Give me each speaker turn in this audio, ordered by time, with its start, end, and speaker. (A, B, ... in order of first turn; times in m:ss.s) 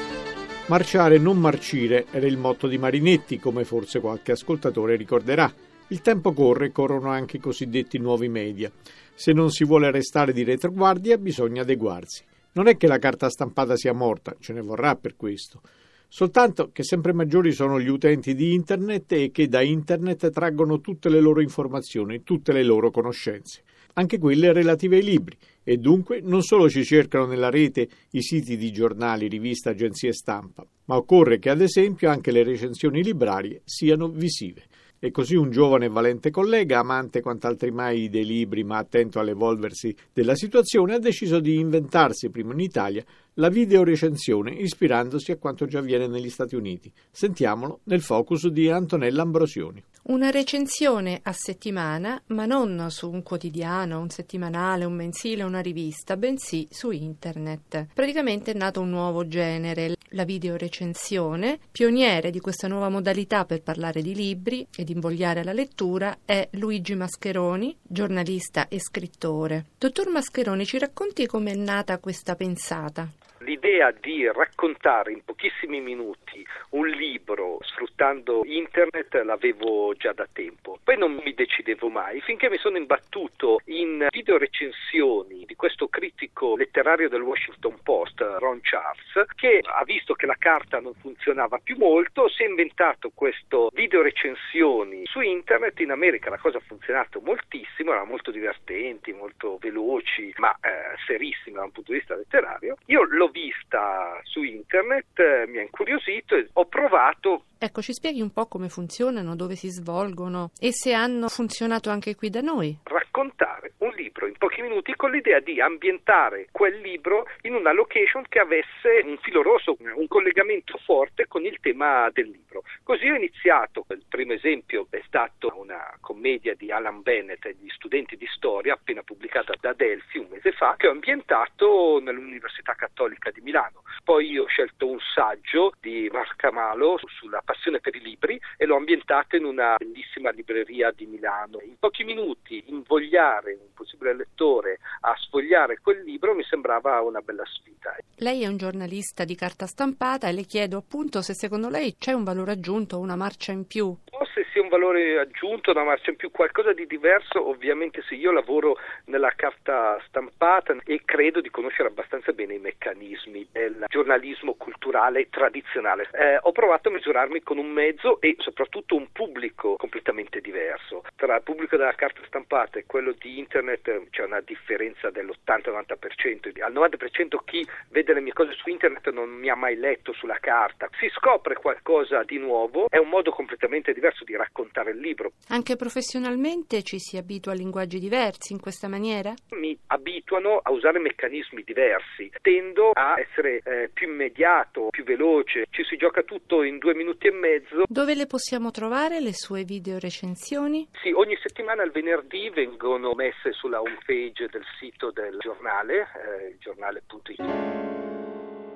0:00.7-0:49.8 A
0:50.0-1:13.1 B
1:13.4-1:47.4 C
1:47.6-1:52.8 B
1:52.8-2:28.0 C
2:28.2-2:34.0 B
2:34.1-3:05.3 C
3:05.5-3:09.4 B
3:09.5-3:17.9 C
3:17.9-3:20.9 B
3:21.0-3:27.6 C